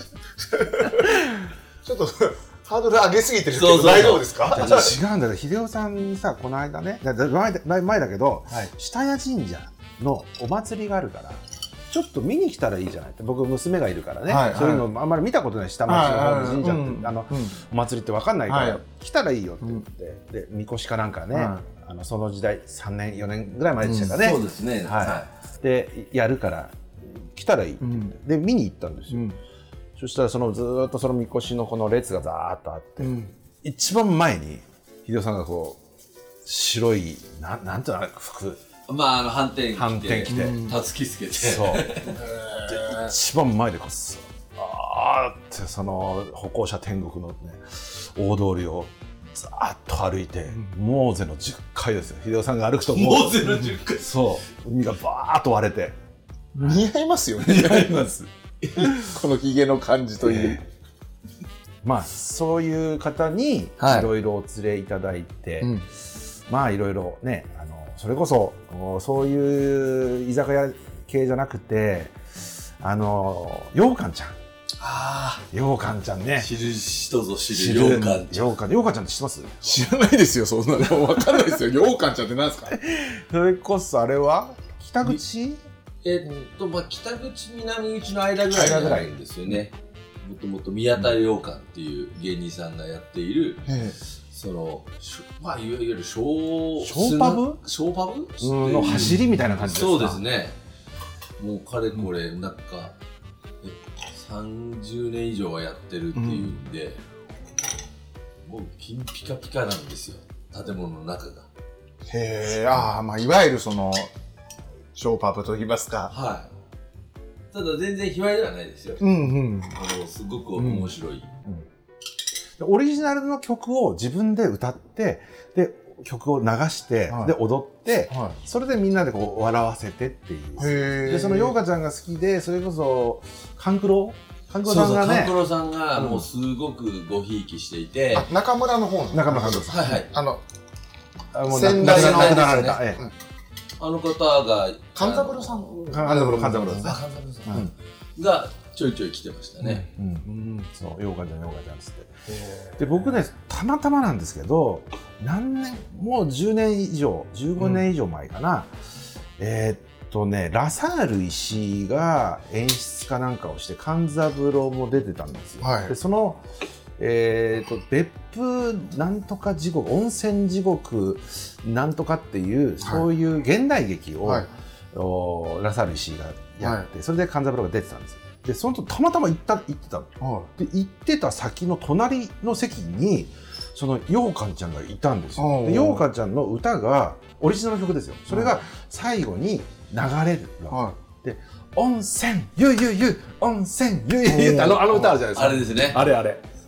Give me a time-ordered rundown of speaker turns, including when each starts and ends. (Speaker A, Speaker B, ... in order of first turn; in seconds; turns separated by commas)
Speaker A: 0.5-5.0, Speaker B: 3.5-5.0, Speaker C: 4.5-29.3, Speaker A: 14.3-14.9, Speaker A: 15.9-17.6, Speaker A: 18.5-18.8, Speaker A: 21.3-21.6, Speaker A: 23.8-24.2, Speaker B: 24.2-25.3, Speaker A: 27.8-28.1, Speaker A: 29.1-29.4, Speaker C: 30.0-35.8, Speaker A: 33.0-33.3, Speaker C: 36.4-38.6, Speaker B: 38.9-42.2, Speaker C: 39.8-40.7, Speaker A: 40.3-40.8, Speaker C: 41.3-42.1, Speaker A: 42.1-43.1, Speaker C: 42.7-56.0, Speaker B: 52.9-54.1, Speaker A: 56.5-58.1, Speaker C: 56.6-56.9, Speaker C: 57.4-59.1, Speaker A: 58.8-60.6, Speaker C: 60.2-60.6, Speaker C: 61.8-65.8, Speaker A: 63.8-64.1, Speaker A: 65.6-65.9, Speaker C: 66.5-74.4, Speaker B: 74.8-75.5, Speaker C: 75.5-76.5, Speaker B: 76.4-78.5, Speaker C: 77.5-79.6, Speaker A: 79.6-82.8, Speaker C: 82.7-85.6, Speaker B: 86.0-100.6, Speaker C: 88.5-89.1, Speaker A: 93.7-94.0, Speaker C: 96.8-97.6, Speaker C: 98.4-100.2, Speaker A: 98.9-99.2, Speaker B: 101.4-103.0, Speaker B: 103.6-107.0, Speaker A: 106.2-106.5, Speaker B: 108.4-111.5, Speaker A: 112.1-114.1, Speaker A: 115.0-116.1, Speaker B: 116.1-116.5, Speaker B: 117.5-119.0, Speaker A: 119.0-119.8, Speaker B: 119.7-121.3, Speaker A: 120.6-120.9, Speaker C: 122.6-135.4, Speaker A: 127.1-127.3, Speaker A: 128.1-128.4, Speaker A: 130.6-131.6, Speaker B: 134.7-138.3, Speaker C: 135.9-136.3, Speaker A: 138.1-140.4, Speaker C: 139.1-139.9, Speaker B: 139.7-140.1, Speaker C: 141.3-143.0, Speaker A: 141.5-143.1, Speaker B: 141.7-142.8, Speaker B: 143.8-145.7, Speaker A: 144.9-147.7, Speaker C: 145.9-147.0, Speaker B: 146.8-149.9, Speaker C: 149.6-152.1, Speaker A: 150.2-150.7, Speaker A: 152.3-153.2, Speaker C: 152.8-158.7, Speaker A: 157.6-157.8, Speaker C: 159.4-166.4, Speaker A: 165.6-165.9, Speaker C: 167.0-196.4, Speaker A: 176.6-176.9, Speaker A: 180.2-180.5, Speaker A: 185.4-186.1, Speaker A: 190.7-191.0, Speaker A: 194.2-195.2, Speaker B: 195.3-196.0